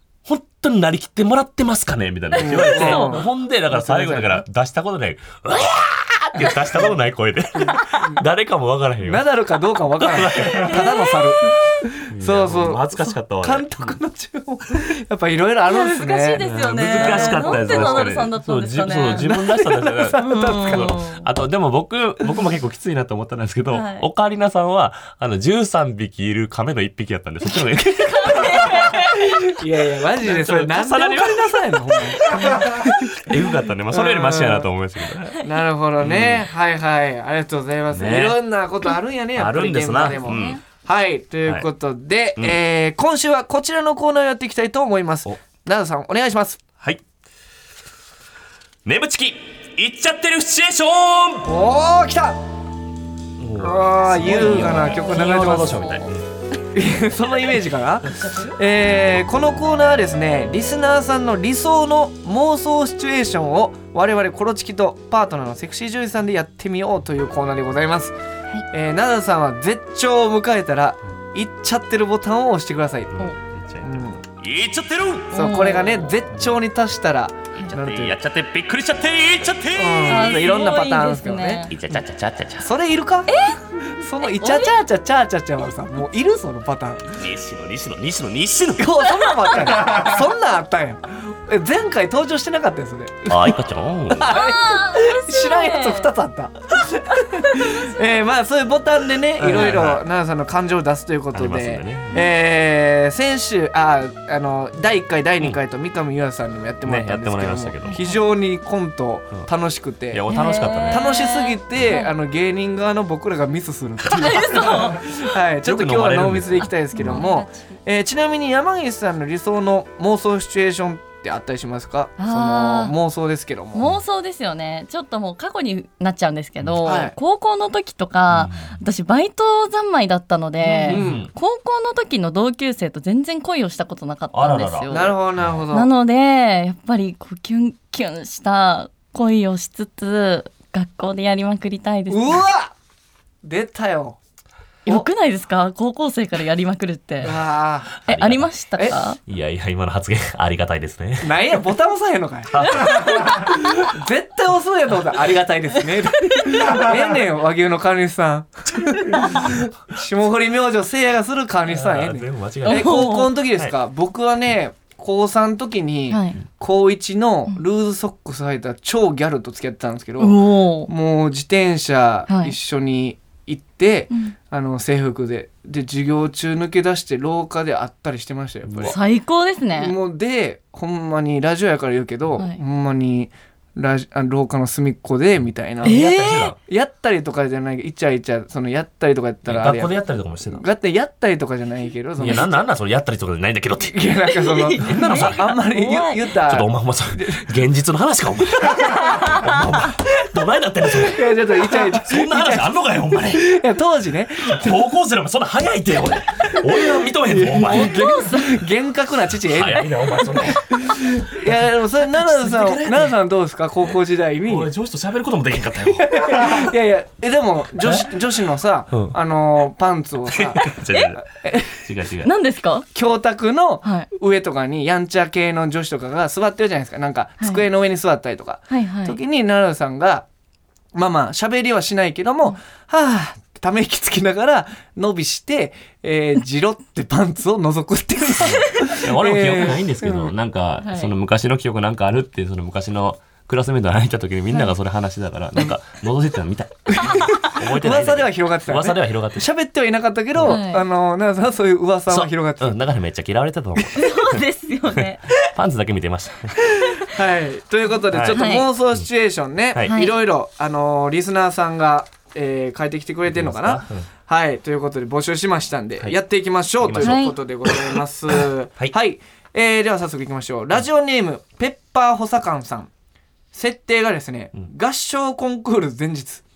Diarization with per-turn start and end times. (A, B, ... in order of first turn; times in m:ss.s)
0:00.2-0:09.2 A
0:02.4-0:04.4 B
0:02.4-0:03.2 C
0:06.4-0:06.8 B
0:07.6-0:08.2 B
0:09.0-0:18.1 B
0:10.0-0:11.0 A
0:10.5-0:11.3 C
0:12.1-0:14.0 A
0:15.7-0:19.3 C
0:16.4-0:28.9 A
0:19.1-0:21.0 B
0:20.2-0:21.2 C
0:23.7-0:24.1 C
0:28.0-0:29.4 C
0:29.2-0:33.4 B
0:30.2-0:35.4 A
0:33.9-0:34.7 B
0:35.4-0:46.6 B
0:36.0-0:36.5 A
0:37.9-0:38.4 A
0:39.3-0:40.6 A
0:40.1-0:40.6 C
0:48.8-0:51.5 A
0:51.4-0:52.4 B
0:53.4-0:56.2 A
0:53.6-0:56.0 B
0:54.7-0:56.0 C
0:56.7-1:08.1 B
0:58.0-0:58.5 A
1:08.7-1:13.2 B
1:13.1-1:15.4 A
1:13.8-1:14.2 B
1:15.3-1:18.2 B
1:15.3-1:16.1 C
1:17.7-1:20.4 A
1:19.7-1:21.7 B
1:20.1-1:21.7 C
1:21.7-1:22.7 A
1:22.6-1:27.2 B
1:23.3-1:23.6 C
1:24.2-1:24.8 C
1:27.1-1:28.9 A
1:28.8-1:33.5 B
1:33.3-1:34.3 A
1:34.1-1:50.2 B
1:34.2-1:36.1 C
1:37.4-1:37.8 C
1:39.4-1:40.0 A
1:41.3-1:42.2 A
1:46.8-1:48.0 A
1:47.9-1:48.2 C
1:50.1-1:51.1 A
1:50.3-1:52.1 C
1:50.9-2:03.9 B
1:54.1-1:55.0 C
1:55.6-1:57.2 A
1:56.9-1:57.7 C
2:02.2-2:02.9 C
2:03.7-2:15.2 C
2:06.8-2:07.1 B
2:08.3-2:08.7 A
2:10.8-2:11.3 A
2:10.8-2:11.3 B
2:14.3-2:15.6 A
2:14.9-2:15.9 B
2:15.7-2:22.4 C
2:22.1-2:22.7 B
2:23.4-2:24.2 B
2:24.8-2:27.4 C
2:27.2-2:28.0 B
2:28.0-2:29.2 C
2:28.1-2:28.5 A
2:29.2-2:31.4 A
2:31.2-2:59.0 B
2:32.5-2:33.3 A
2:32.6-2:33.4 C
2:39.0-2:39.4 C
2:41.6-2:43.7 A
2:42.6-2:43.3 C
2:46.1-2:46.4 C
2:50.2-2:50.9 C
2:52.3-2:52.5 C
2:58.7-2:59.0 A
2:58.8-3:00.0 C
2:59.8-3:06.0 B
3:05.8-3:06.6 A
3:05.8-3:06.5 C
3:06.6-3:10.0 B
3:09.4-3:10.6 A
3:10.5-3:12.6 B
3:12.2-3:14.0 A
3:13.8-3:17.5 B
3:14.3-3:16.2 C
3:14.8-3:15.5 A
3:16.4-3:23.5 A
3:19.0-3:19.9 C
3:20.9-3:24.8 B
3:24.4-3:28.0 A
3:27.0-3:34.7 B
3:27.7-3:28.6 C
3:29.3-3:31.5 A
3:32.1-3:33.1 A
3:34.4-3:36.7 A
3:35.8-3:40.6 B
3:37.8-3:38.1 A
3:40.3-3:42.3 A
3:40.9-3:41.2 C
3:41.2-3:41.8 B
3:42.2-3:42.8 C
3:42.9-3:50.2 B
3:48.7-3:49.2 C
3:50.9-4:00.3 B
3:58.4-4:09.5 A
3:58.6-3:58.9 C
4:00.8-4:01.1 C
4:06.9-4:12.8 B
4:07.2-4:07.5 C
4:10.4-4:10.8 C
4:12.1-4:16.7 A
4:13.9-4:15.2 C
4:17.0-4:32.9 B
4:18.1-4:19.0 A
4:18.3-4:18.7 C
4:19.8-4:20.1 C
4:23.3-4:24.0 A
4:26.8-4:28.9 A
4:27.0-4:27.4 C
4:33.5-4:36.4 B